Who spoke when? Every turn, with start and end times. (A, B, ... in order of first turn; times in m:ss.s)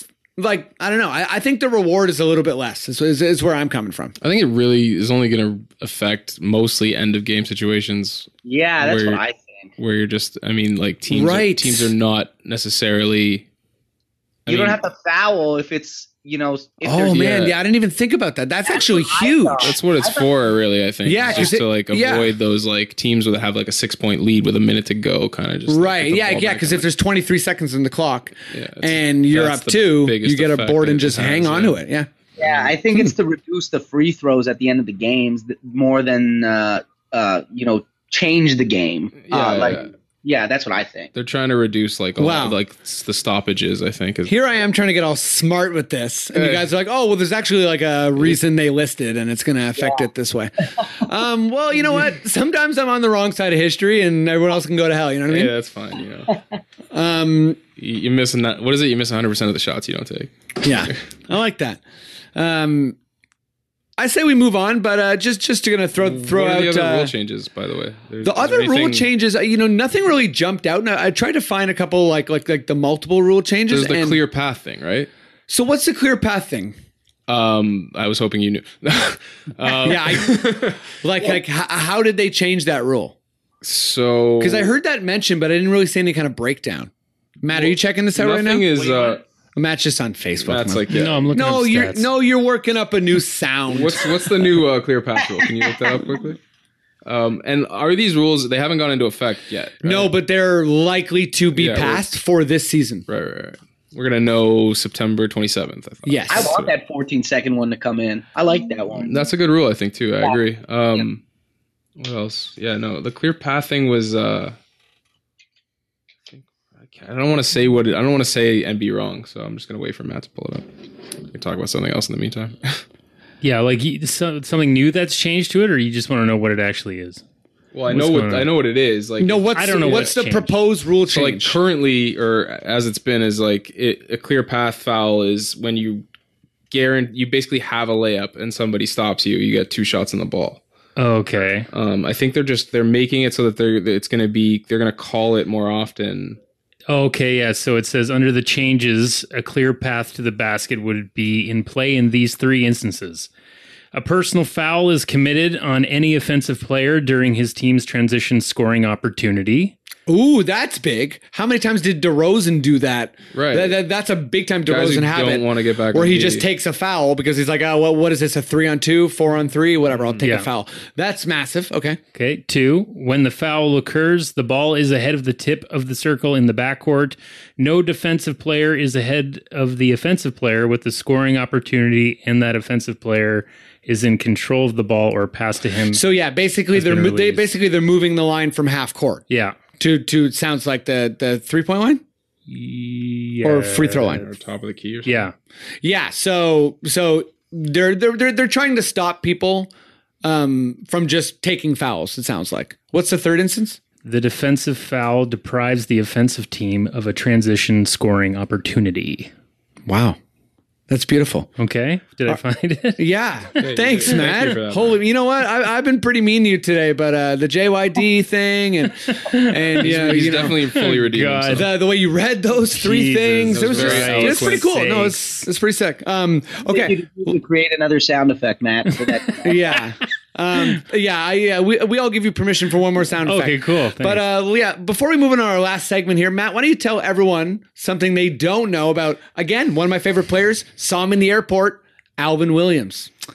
0:00.4-0:04.1 A
0:04.2-0:09.2 B
0:08.4-0:09.7 C
0:09.8-0:13.4 B
0:11.1-0:11.9 A
0:14.4-0:14.8 B
0:14.5-0:17.3 C
0:16.8-0:19.8 A
0:17.2-0:17.5 B
0:18.7-0:20.3 C
0:19.6-0:26.9 B
0:21.0-0:22.3 A
0:25.7-0:32.1 A
0:28.5-0:31.8 B
0:32.4-0:41.1 C
0:32.4-0:32.7 B
0:39.2-0:39.9 B
0:41.1-0:44.3 B
0:42.2-0:42.6 A
0:44.3-0:55.5 A
0:46.3-0:46.7 B
0:55.3-0:56.4 B
0:56.9-0:57.6 A
0:57.8-1:00.3 B
1:00.6-1:01.8 A
1:02.3-1:03.0 A
1:04.0-1:07.1 A
1:06.0-1:09.1 B
1:08.2-1:14.2 A
1:13.7-1:15.1 B
1:15.5-1:16.7 A
1:17.3-1:20.8 B
1:19.7-1:23.2 A
1:23.6-1:24.7 B
1:24.4-1:26.9 A
1:27.4-1:28.7 A
1:27.5-1:29.2 B
1:28.7-1:29.2 C
1:29.6-1:34.1 A
1:30.4-1:31.3 B
1:30.9-1:32.1 D
1:33.7-1:36.4 B
1:35.4-1:36.0 C
1:37.0-1:40.1 B
1:39.8-1:43.0 A
1:41.5-1:42.0 B
1:43.1-1:46.7 B
1:46.0-1:46.5 A
1:46.3-1:49.2 C
1:49.0-1:51.2 B
1:52.0-1:54.6 B
1:56.3-2:00.7 B
2:01.3-2:02.8 B
2:03.4-2:07.2 D
2:07.7-2:10.1 B
2:07.9-2:08.5 D
2:09.2-2:11.6 A
2:09.5-2:10.5 D
2:11.1-2:16.0 B
2:16.7-2:20.6 B
2:21.0-2:21.7 D
2:21.7-2:26.4 B
2:26.9-2:33.3 D
2:33.9-2:39.7 D
2:40.1-2:52.0 A
2:43.3-2:43.8 B
2:44.7-2:46.5 B
2:50.2-2:50.5 D
2:52.1-3:06.0 D
3:05.9-3:09.2 A
3:06.7-3:07.5 D
3:09.3-3:09.6 D
3:09.8-3:12.0 A
3:12.5-3:14.2 D
3:13.4-3:14.2 A
3:14.1-3:15.3 B
3:15.0-3:15.3 D
3:15.8-3:19.7 A
3:20.2-3:23.8 A
3:24.0-3:29.3 D
3:29.9-3:30.2 A
3:30.9-3:31.5 A
3:31.6-3:33.0 D
3:33.0-3:40.6 A
3:33.6-3:35.0 B
3:39.2-3:39.5 D
3:39.8-3:41.7 B
3:40.7-3:41.7 D
3:41.5-3:47.0 A
3:42.7-3:45.4 D
3:43.4-3:44.6 B
3:46.7-3:49.7 C
3:49.4-4:03.1 A
3:53.2-3:54.2 D